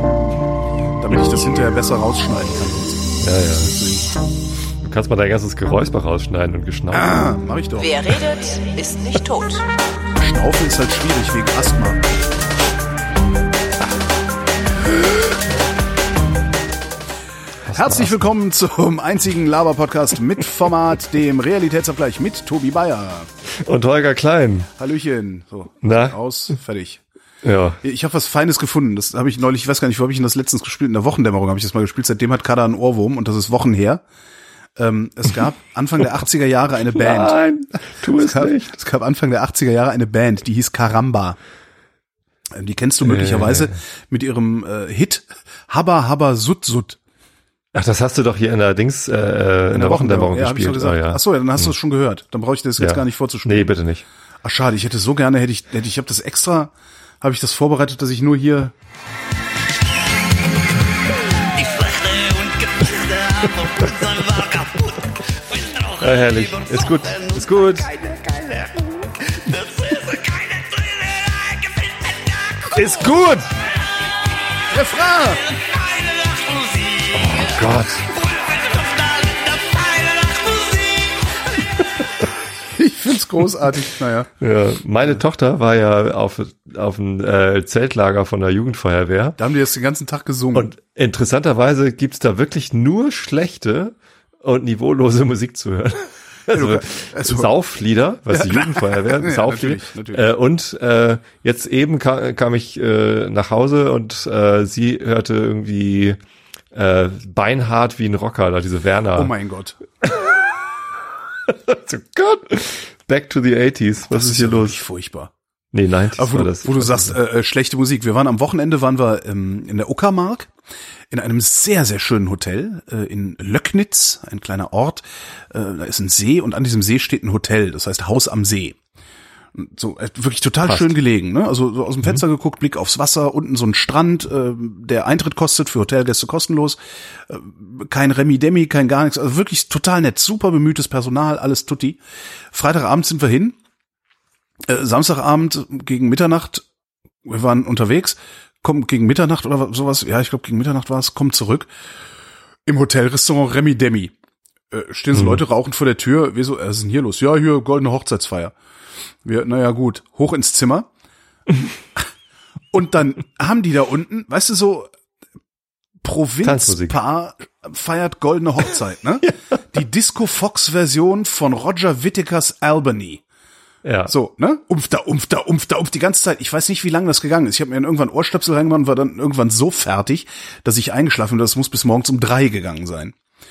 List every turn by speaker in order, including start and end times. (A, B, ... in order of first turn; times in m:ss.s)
0:01.0-0:04.1 A
0:03.2-0:03.7 B
0:04.8-0:07.2 B
0:06.9-0:08.0 A
0:07.8-0:09.6 C
0:10.2-0:12.0 A
0:17.6-0:18.3 B
0:17.7-0:23.3 A
0:23.5-0:24.7 B
0:24.8-0:27.0 A
0:25.8-0:26.2 B
0:27.4-0:27.8 B
0:27.8-0:34.0 A
0:34.8-0:37.4 A
0:36.9-0:38.7 B
0:38.0-0:41.4 A
0:42.5-0:47.0 A
0:43.0-0:43.8 B
0:47.7-0:51.7 B
0:49.7-0:53.7 A
0:52.8-0:54.0 B
0:54.4-0:58.7 A
1:01.3-1:13.0 C
1:06.0-1:07.9 B
1:12.7-1:13.5 B
1:14.7-1:15.4 A
1:15.4-1:21.7 C
1:17.1-1:18.1 B
1:22.7-1:24.3 A
1:24.4-1:29.4 B
1:29.4-1:30.7 A
1:30.5-1:46.2 B
1:36.5-1:37.5 A
1:38.3-1:40.3 A
1:46.7-1:49.3 B
1:49.1-1:49.8 A
1:50.0-1:50.4 B
1:51.4-1:54.8 B
1:54.1-1:55.3 A
1:55.7-1:57.1 B
1:56.2-2:00.5 A
2:01.1-2:08.8 A
2:09.5-2:23.6 A
2:10.6-2:11.0 B
2:24.6-2:26.6 A
2:27.2-2:31.7 A
2:32.6-2:34.1 A
2:34.7-2:38.5 A
2:35.1-2:35.4 B
2:39.2-2:40.9 A
2:42.7-2:44.9 A
2:46.0-2:53.2 A
2:46.4-2:47.0 B
2:53.8-2:54.1 B
2:54.1-3:03.1 A